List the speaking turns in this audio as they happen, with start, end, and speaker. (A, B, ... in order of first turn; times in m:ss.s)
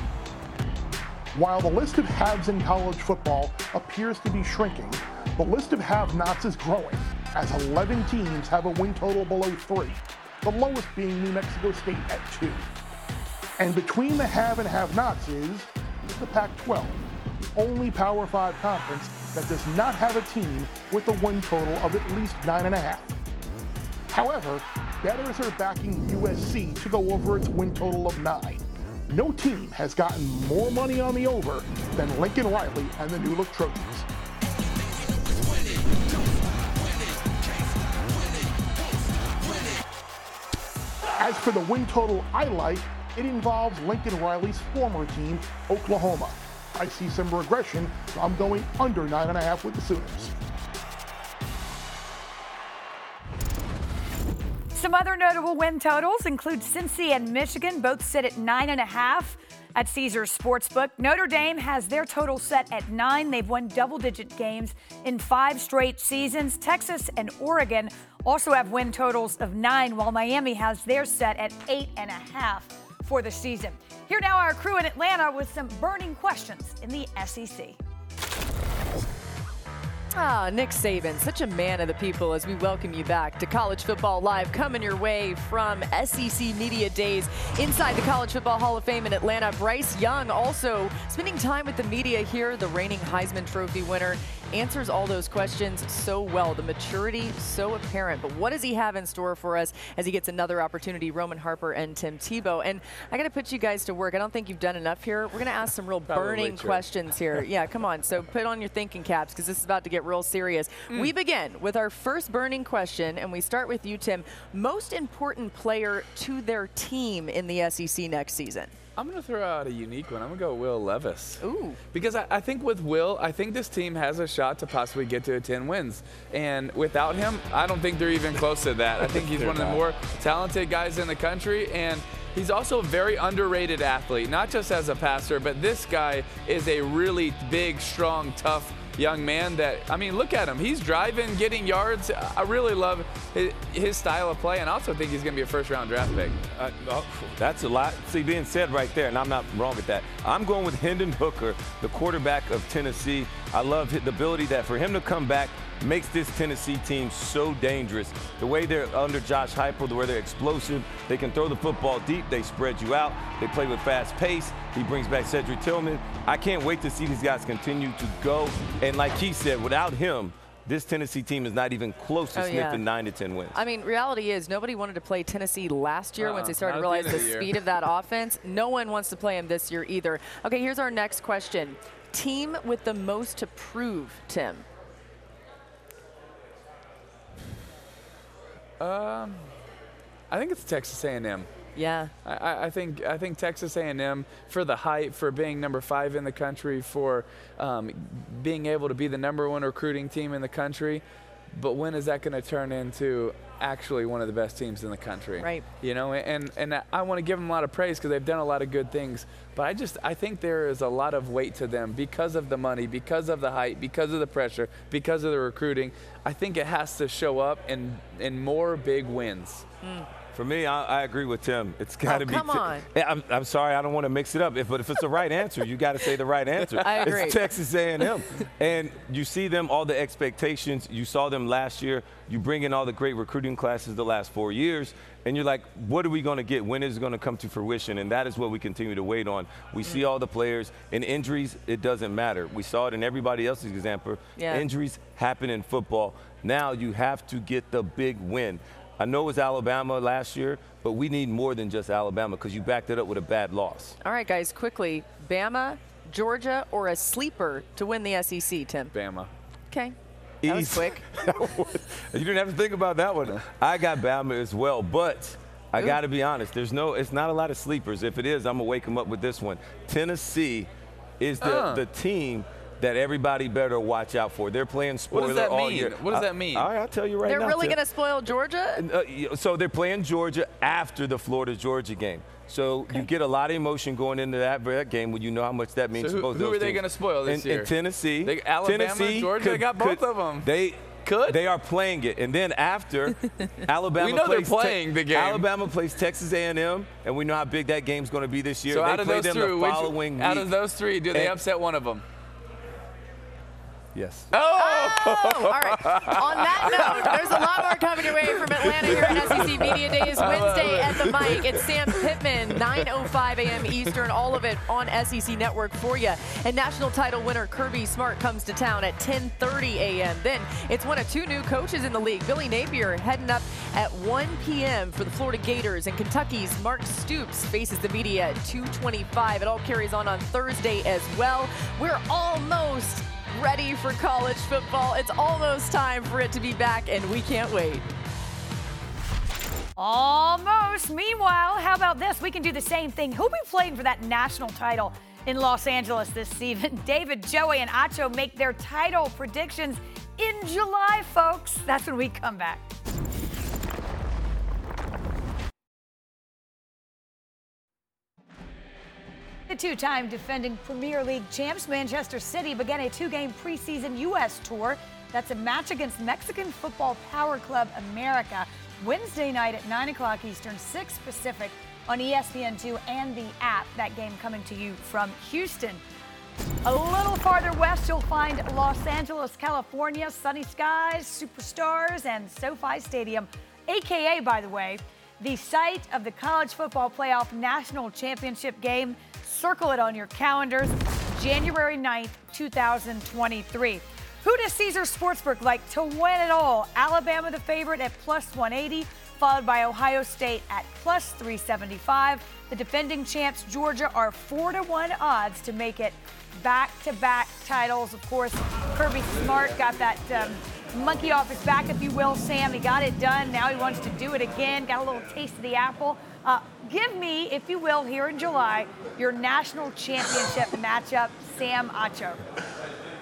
0:01.3-0:12.6 A
0:13.6-0:17.0 A
0:17.6-0:23.2 A
0:24.1-0:34.1 A
0:41.2-0:50.3 A
0:54.8-1:17.8 B
1:20.1-1:58.7 C
1:46.1-1:46.9 D
1:59.0-2:26.4 D
2:01.4-2:01.8 C
2:26.5-2:53.6 E
2:52.3-2:52.8 C
2:53.5-3:04.6 C
2:56.2-2:57.6 D
3:08.8-3:09.5 D
3:10.3-3:11.5 D
3:11.8-3:12.1 C
3:12.2-3:21.0 D
3:21.6-3:39.7 D
3:25.4-3:25.7 C
3:39.8-3:40.1 C
3:40.3-4:14.0 E
3:42.1-3:42.9 C
3:46.8-3:47.5 C
4:04.4-4:04.6 C
4:14.0-4:18.9 C
4:18.9-4:19.3 D
4:19.7-4:21.0 C
4:20.4-4:30.7 E
4:31.2-4:37.8 E
4:31.4-4:31.8 D
4:35.1-4:36.7 D
4:37.2-4:38.8 C
4:38.8-4:53.2 E
4:46.0-4:47.7 D
4:48.2-4:50.5 D
4:51.0-4:51.4 D
4:53.7-5:00.5 E
4:54.0-4:55.4 D
4:58.7-5:02.0 D
5:01.1-5:01.4 E
5:04.0-5:04.3 E
5:04.3-5:07.5 D
5:04.5-5:37.9 C
5:08.0-5:11.9 D
5:39.8-5:52.7 B
5:59.5-6:15.8 B
6:16.6-7:02.2 B